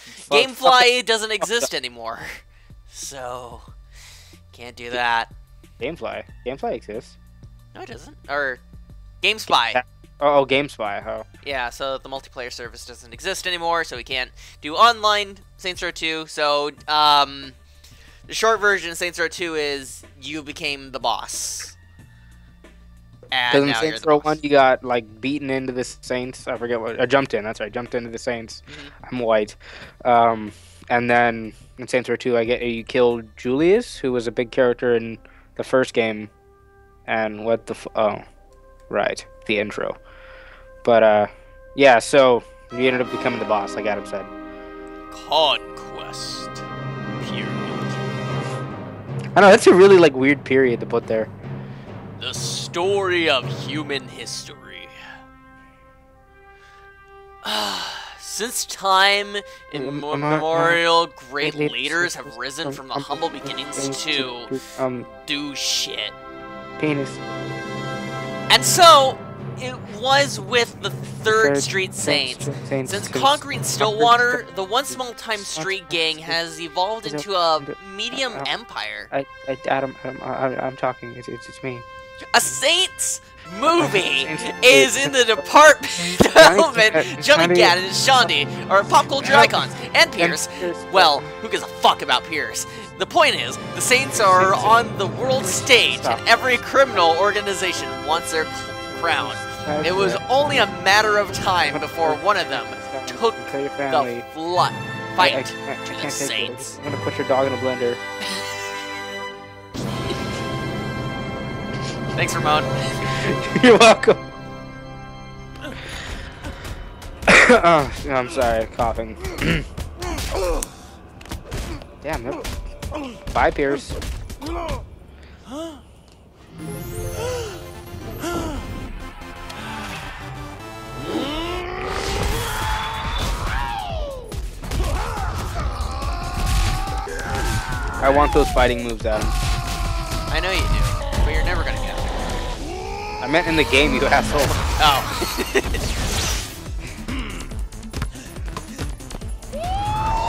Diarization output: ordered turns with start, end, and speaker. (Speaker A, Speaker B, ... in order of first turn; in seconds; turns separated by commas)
Speaker A: 0.1-0.9, Speaker B: 0.2-3.7, Speaker A: 1.4-1.7, Speaker B: 4.5-5.3, Speaker A: 5.8-7.2, Speaker B: 7.7-8.6, Speaker B: 9.2-9.8, Speaker A: 9.5-11.2, Speaker B: 11.4-17.6, Speaker B: 18.3-21.8, Speaker B: 23.3-24.4, Speaker A: 23.5-36.3, Speaker B: 28.7-28.9, Speaker A: 37.1-38.2, Speaker A: 38.9-40.0, Speaker A: 40.8-44.3, Speaker B: 45.1-46.6, Speaker B: 47.2-47.9, Speaker A: 49.4-51.3, Speaker B: 52.2-55.0, Speaker B: 57.4-64.5, Speaker A: 59.7-60.8, Speaker A: 61.4-65.1, Speaker B: 65.2-66.1, Speaker A: 66.8-67.2, Speaker B: 68.5-79.1, Speaker A: 71.3-76.4, Speaker A: 77.0-78.5, Speaker A: 79.1-81.8, Speaker B: 82.3-106.8, Speaker A: 83.8-88.3, Speaker A: 89.2-91.3, Speaker A: 94.2-96.2, Speaker A: 99.0-100.7, Speaker A: 101.7-104.2, Speaker A: 105.2-108.0, Speaker B: 112.1-112.7, Speaker A: 113.2-114.2, Speaker A: 117.3-119.6, Speaker A: 122.0-122.5, Speaker A: 123.3-124.0, Speaker A: 138.0-139.3, Speaker B: 140.3-142.2, Speaker A: 143.2-144.6, Speaker B: 144.8-145.8